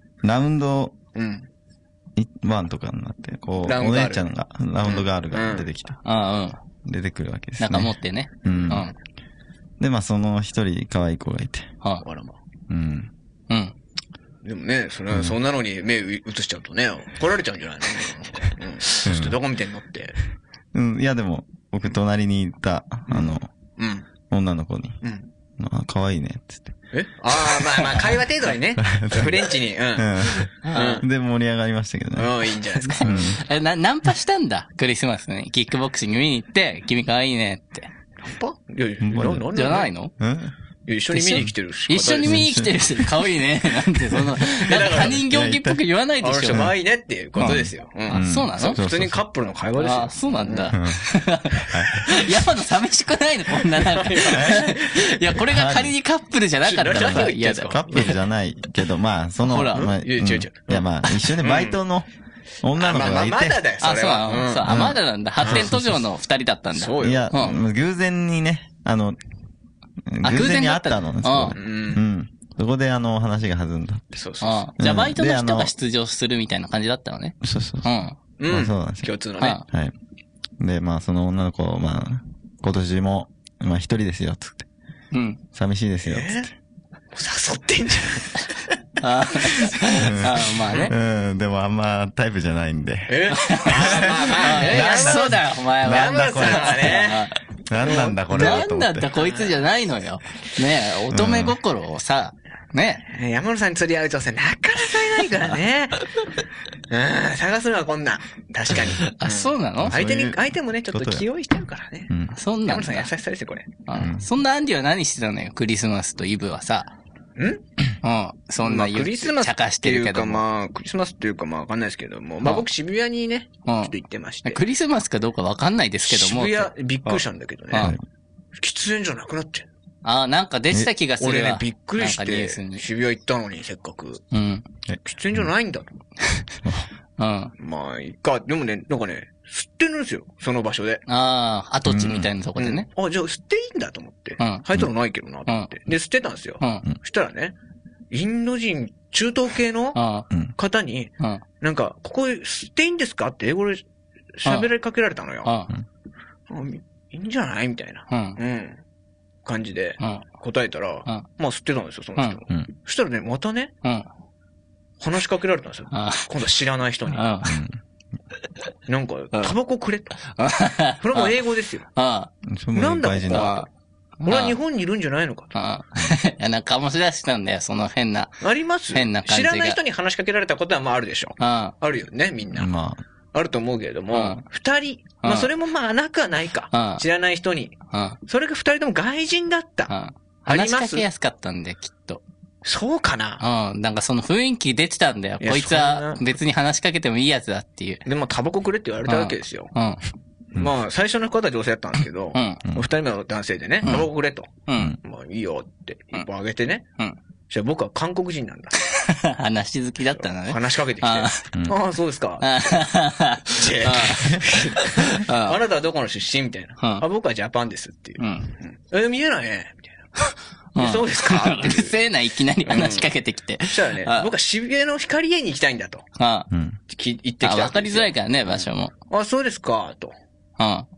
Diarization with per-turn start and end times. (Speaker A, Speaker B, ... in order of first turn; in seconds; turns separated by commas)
Speaker A: 0.2-0.9, Speaker B: 1.1-1.5, Speaker A: 2.2-6.0, Speaker B: 3.6-4.3, Speaker B: 4.8-5.7, Speaker C: 6.0-6.6, Speaker A: 6.8-8.9, Speaker C: 7.6-8.9, Speaker B: 8.5-8.9, Speaker A: 9.8-11.7, Speaker B: 12.0-12.4, Speaker A: 12.7-13.1, Speaker C: 13.5-13.7, Speaker B: 14.4-20.2, Speaker A: 19.0-19.4, Speaker A: 20.7-23.5, Speaker B: 23.1-24.1, Speaker A: 24.3-25.0, Speaker B: 25.0-25.3, Speaker A: 25.6-26.8, Speaker B: 26.9-31.1, Speaker A: 27.6-27.9, Speaker A: 28.8-33.4, Speaker C: 30.6-31.0, Speaker B: 32.2-33.4, Speaker C: 32.9-37.9, Speaker B: 38.2-39.9, Speaker A: 39.0-39.5, Speaker C: 39.5-40.1, Speaker A: 40.2-40.5, Speaker B: 40.9-42.4, Speaker C: 41.1-46.7, Speaker A: 42.2-43.1, Speaker B: 44.5-45.2, Speaker A: 44.8-45.8, Speaker B: 46.2-50.8, Speaker A: 47.4-49.2, Speaker C: 47.4-48.8, Speaker C: 49.8-58.1, Speaker A: 50.7-51.0, Speaker A: 51.7-52.2, Speaker B: 53.7-55.1, Speaker A: 54.3-54.7, Speaker A: 55.3-55.9, Speaker B: 56.6-58.2, Speaker A: 56.9-62.1, Speaker C: 59.4-59.9, Speaker B: 59.7-61.8, Speaker A: 62.6-63.6, Speaker B: 62.8-64.8, Speaker C: 63.8-67.6, Speaker A: 64.7-66.0, Speaker B: 65.4-65.7, Speaker B: 66.7-67.5, Speaker A: 67.0-69.2, Speaker A: 70.1-74.2, Speaker C: 70.2-71.6, Speaker B: 71.5-72.0, Speaker B: 74.2-74.7, Speaker C: 74.4-78.1, Speaker A: 74.8-75.7, Speaker A: 77.4-77.9, Speaker B: 78.4-79.6, Speaker A: 78.5-79.1, Speaker A: 79.7-79.9, Speaker A: 80.6-84.7, Speaker C: 85.1-85.4, Speaker A: 85.5-86.5, Speaker B: 86.0-86.5, Speaker B: 87.1-88.5, Speaker C: 89.0-91.0, Speaker A: 90.0-97.2, Speaker B: 93.1-97.3, Speaker C: 93.3-97.4, Speaker A: 97.7-99.2, Speaker B: 97.8-98.6, Speaker C: 97.9-103.1, Speaker B: 99.2-99.5, Speaker A: 101.1-101.6, Speaker B: 103.1-106.1, Speaker B: 106.9-112.1, Speaker C: 108.9-110.0, Speaker A: 109.8-111.3, Speaker A: 112.1-112.4, Speaker C: 112.3-113.1, Speaker B: 112.7-113.7, Speaker C: 113.9-116.9, Speaker A: 114.0-114.3, Speaker B: 117.4-117.6, Speaker C: 118.0-120.4, Speaker B: 118.6-124.6, Speaker C: 123.7-123.9, Speaker C: 124.5-126.7, Speaker B: 126.0-128.0, Speaker A: 127.8-128.0, Speaker B: 128.6-129.7, Speaker C: 130.0-132.8, Speaker B: 131.2-134.2, Speaker C: 134.3-134.7, Speaker A: 134.9-135.5, Speaker B: 135.1-135.9, Speaker C: 137.2-137.5, Speaker B: 137.6-141.0, Speaker C: 141.1-142.9, Speaker A: 141.9-142.3, Speaker B: 142.6-147.6, Speaker B: 148.1-150.0, Speaker C: 149.9-150.3, Speaker B: 150.6-153.8, Speaker B: 154.4-155.6, Speaker C: 155.4-155.7, Speaker B: 156.5-158.8, Speaker C: 158.1-158.4, Speaker B: 159.4-163.7, Speaker B: 165.0-167.3, Speaker C: 165.9-166.3, Speaker C: 167.1-167.6, Speaker A: 167.4-167.8, Speaker B: 168.9-170.2, Speaker C: 170.3-171.4, Speaker B: 171.0-171.9, Speaker C: 171.9-172.3, Speaker A: 172.4-173.6, Speaker B: 172.7-173.7, Speaker C: 173.3-173.7, Speaker C: 174.2-174.6, Speaker B: 174.3-175.6, Speaker C: 175.6-178.3, Speaker B: 178.4-182.7, Speaker C: 178.9-179.8, Speaker C: 181.4-181.7, Speaker A: 182.5-183.0, Speaker B: 183.3-189.9, Speaker C: 184.1-184.4, Speaker C: 185.2-185.5, Speaker C: 186.7-187.0, Speaker C: 187.9-188.2, Speaker C: 189.9-192.2, Speaker B: 190.5-191.1, Speaker B: 192.6-193.4, Speaker C: 193.4-198.0, Speaker B: 195.4-196.3, Speaker B: 198.1-199.7, Speaker C: 199.1-200.0, Speaker B: 200.5-204.5, Speaker C: 202.3-202.6, Speaker C: 204.7-205.0, Speaker B: 205.0-206.9, Speaker B: 207.5-208.8, Speaker C: 208.8-211.4, Speaker B: 210.4-212.5, Speaker C: 212.4-215.6, Speaker B: 213.5-219.9, Speaker C: 216.8-217.0, Speaker C: 218.2-218.5, Speaker C: 220.8-224.3, Speaker B: 220.8-222.0, Speaker B: 222.7-223.1, Speaker B: 223.7-226.1, Speaker C: 226.2-226.5, Speaker A: 226.5-226.8, Speaker B: 226.9-230.1, Speaker C: 227.4-228.9, Speaker C: 230.6-230.9